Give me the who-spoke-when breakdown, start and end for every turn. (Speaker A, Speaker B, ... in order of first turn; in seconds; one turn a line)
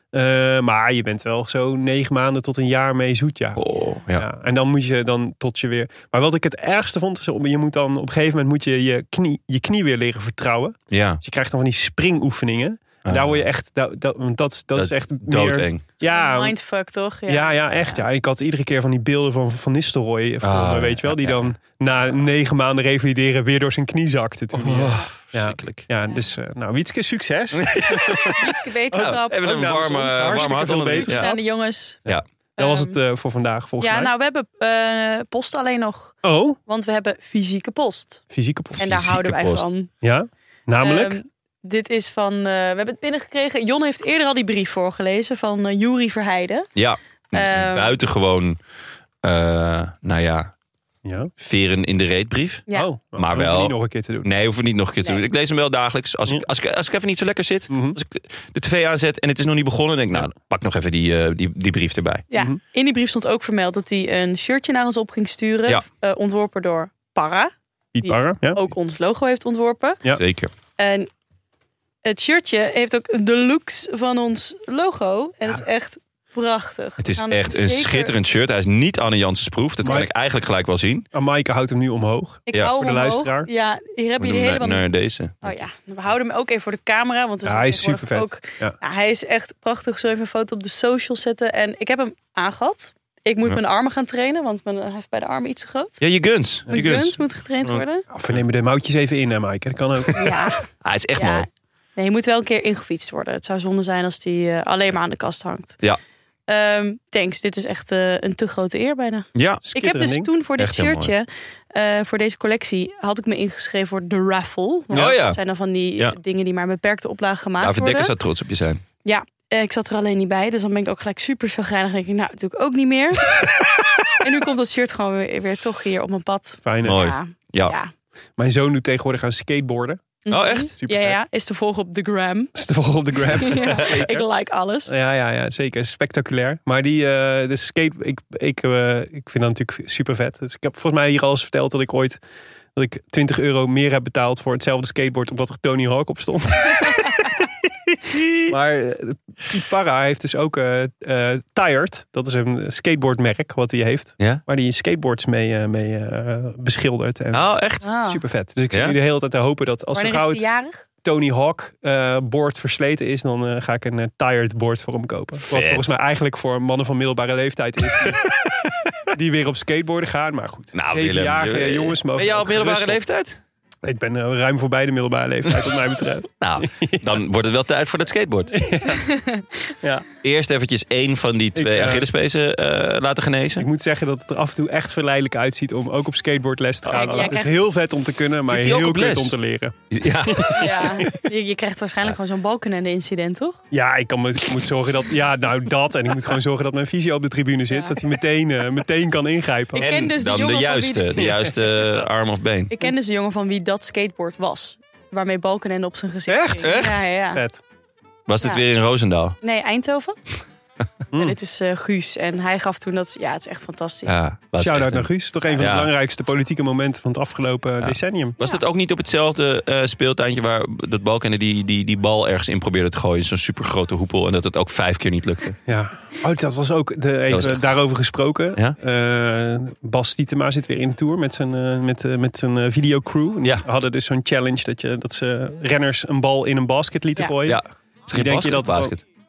Speaker A: 0.1-3.6
Speaker B: 3.5-4.3
Speaker A: 4.2-16.5
Speaker B: 10.9-11.2
Speaker B: 13.0-13.4
Speaker B: 14.7-15.9
Speaker C: 16.0-18.0
Speaker A: 17.3-28.4
Speaker B: 20.4-21.5
Speaker B: 24.5-25.9
Speaker B: 27.5-28.4
Speaker C: 28.4-29.7
Speaker A: 28.9-31.2
Speaker B: 28.9-31.4
Speaker C: 30.3-32.0
Speaker A: 32.1-34.1
Speaker C: 32.6-33.0
Speaker C: 33.8-38.2
Speaker A: 36.2-36.6
Speaker A: 38.3-38.9
Speaker B: 38.8-39.7
Speaker C: 38.8-39.9
Speaker A: 40.0-41.2
Speaker C: 40.8-46.7
Speaker B: 46.8-48.6
Speaker C: 47.3-48.0
Speaker B: 49.2-50.5
Speaker A: 51.0-51.3
Speaker B: 51.4-62.2
Speaker A: 52.7-54.3
Speaker A: 57.7-58.0
Speaker C: 62.3-67.5
Speaker A: 67.9-68.6
Speaker C: 68.0-70.0
Speaker B: 70.1-70.5
Speaker C: 70.8-71.1
Speaker C: 72.0-78.1
Speaker B: 77.0-81.1
Speaker A: 79.8-80.1
Speaker A: 81.1-83.5
Speaker C: 82.5-84.8
Speaker B: 84.2-85.5
Speaker C: 85.4-96.0
Speaker A: 87.5-88.8
Speaker B: 96.0-97.2
Speaker C: 96.7-98.1
Speaker A: 98.1-100.3
Speaker C: 100.1-105.8
Speaker B: 100.8-101.5
Speaker C: 106.5-118.1
Speaker B: 109.3-109.6
Speaker A: 109.6-110.3
Speaker B: 110.6-111.1
Speaker B: 114.9-115.4
Speaker B: 117.6-118.8
Speaker C: 119.0-123.4
Speaker B: 123.4-124.2
Speaker C: 124.1-127.9
Speaker A: 126.6-127.0
Speaker B: 126.8-127.8
Speaker A: 128.4-130.2
Speaker C: 130.2-132.5
Speaker B: 130.3-130.7
Speaker A: 130.8-131.2
Speaker A: 132.6-134.2
Speaker C: 133.2-134.9
Speaker B: 133.7-134.0
Speaker A: 134.9-142.2
Speaker A: 142.8-147.2
Speaker A: 148.5-160.4
Speaker B: 154.2-154.4
Speaker B: 157.3-157.9
Speaker C: 157.8-158.2
Speaker B: 158.7-158.9
Speaker C: 159.9-160.8
Speaker A: 161.0-168.2
Speaker B: 165.5-165.9
Speaker B: 168.1-168.7
Speaker A: 169.1-173.0
Speaker B: 170.7-173.4
Speaker A: 173.8-177.1
Speaker B: 176.4-178.5
Speaker A: 178.5-179.1
Speaker C: 179.0-179.5
Speaker A: 179.8-180.1
Speaker B: 180.2-183.7
Speaker A: 181.6-182.1
Speaker A: 183.6-191.2
Speaker B: 186.8-187.3
Speaker C: 186.9-187.7
Speaker B: 188.4-189.3
Speaker B: 189.9-191.0
Speaker C: 190.6-193.6
Speaker A: 193.7-199.9
Speaker C: 197.7-198.0
Speaker C: 199.7-201.4
Speaker B: 199.8-202.7
Speaker C: 202.7-207.4
Speaker A: 206.3-206.7
Speaker B: 206.6-207.1
Speaker A: 207.3-207.6
Speaker B: 208.3-209.3
Speaker C: 209.4-210.2
Speaker C: 211.1-214.2
Speaker B: 214.1-215.9
Speaker A: 214.6-218.4
Speaker B: 217.8-225.6
Speaker A: 225.7-237.6
Speaker B: 227.3-227.7
Speaker B: 237.4-239.0
Speaker A: 238.1-238.9